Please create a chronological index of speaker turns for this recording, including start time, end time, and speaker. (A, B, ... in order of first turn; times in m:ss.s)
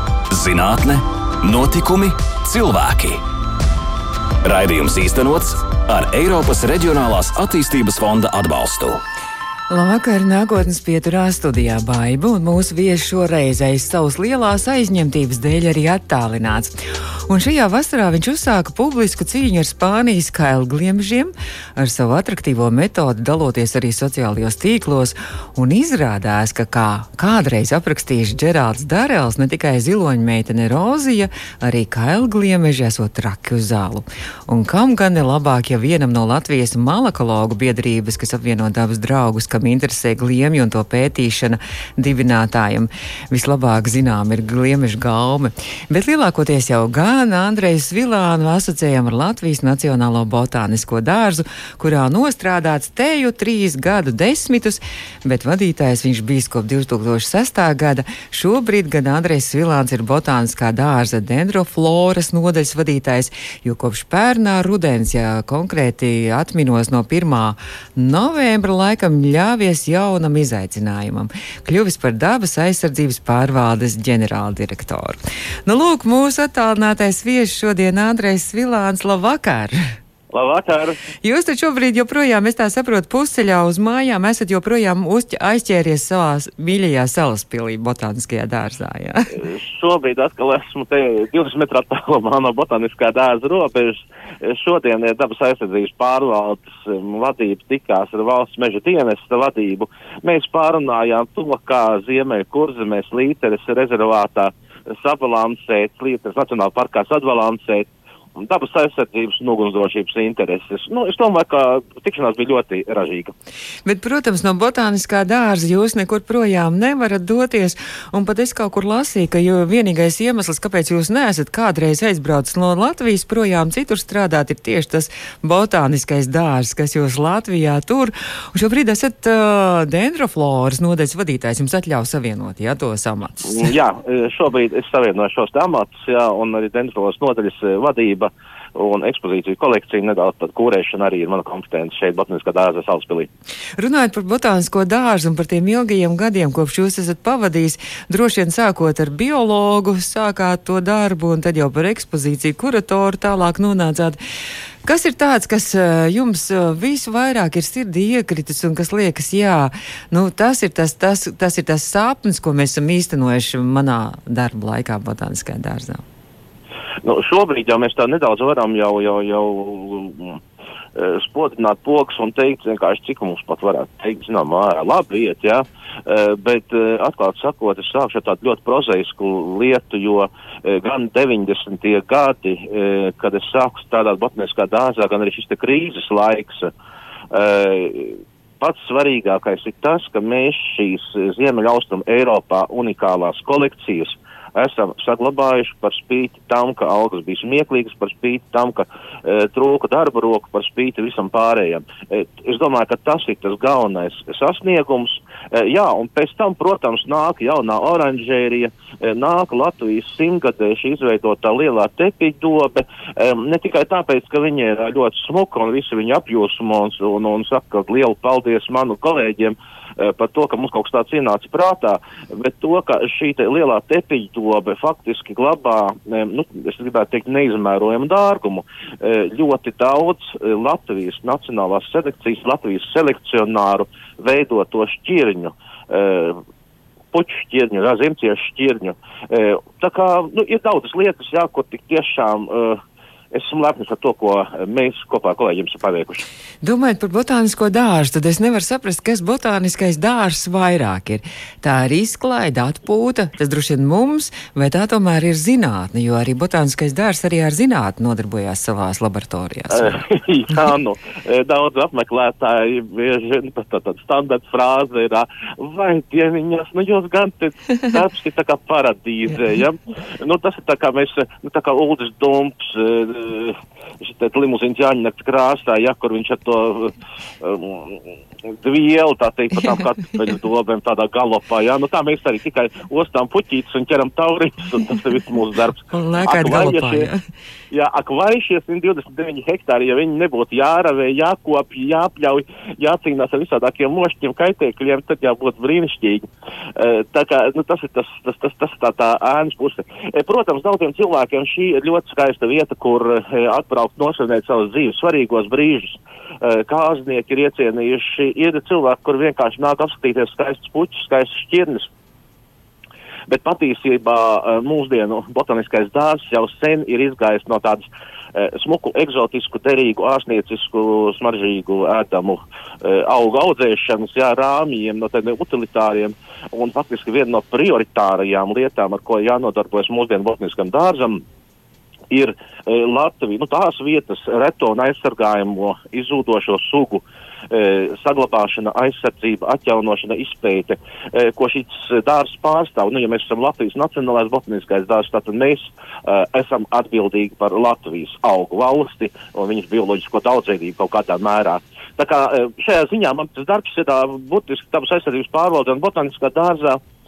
0:00.3-0:03.2 A
0:04.4-0:09.0 A
0:09.7-0:16.7 B
0:17.3-1:19.9 B
1:20.3-1:21.0 C
1:21.2-1:29.4 B
1:29.3-1:53.3 C
1:53.8-2:13.7 B
2:13.4-2:23.3 C
2:23.8-2:34.2 B
2:34.8-2:46.0 B
2:47.0-2:50.4 C
2:50.9-3:06.7 C
3:07.3-3:56.4 C
3:57.1-4:02.8 C
4:03.3-4:06.2 C
4:06.6-4:20.0 B
4:19.7-4:47.1 C
4:45.9-4:47.2 B
4:47.7-4:56.2 C
4:56.8-5:11.9 C
5:13.3-5:31.2 C
5:32.1-5:56.8 C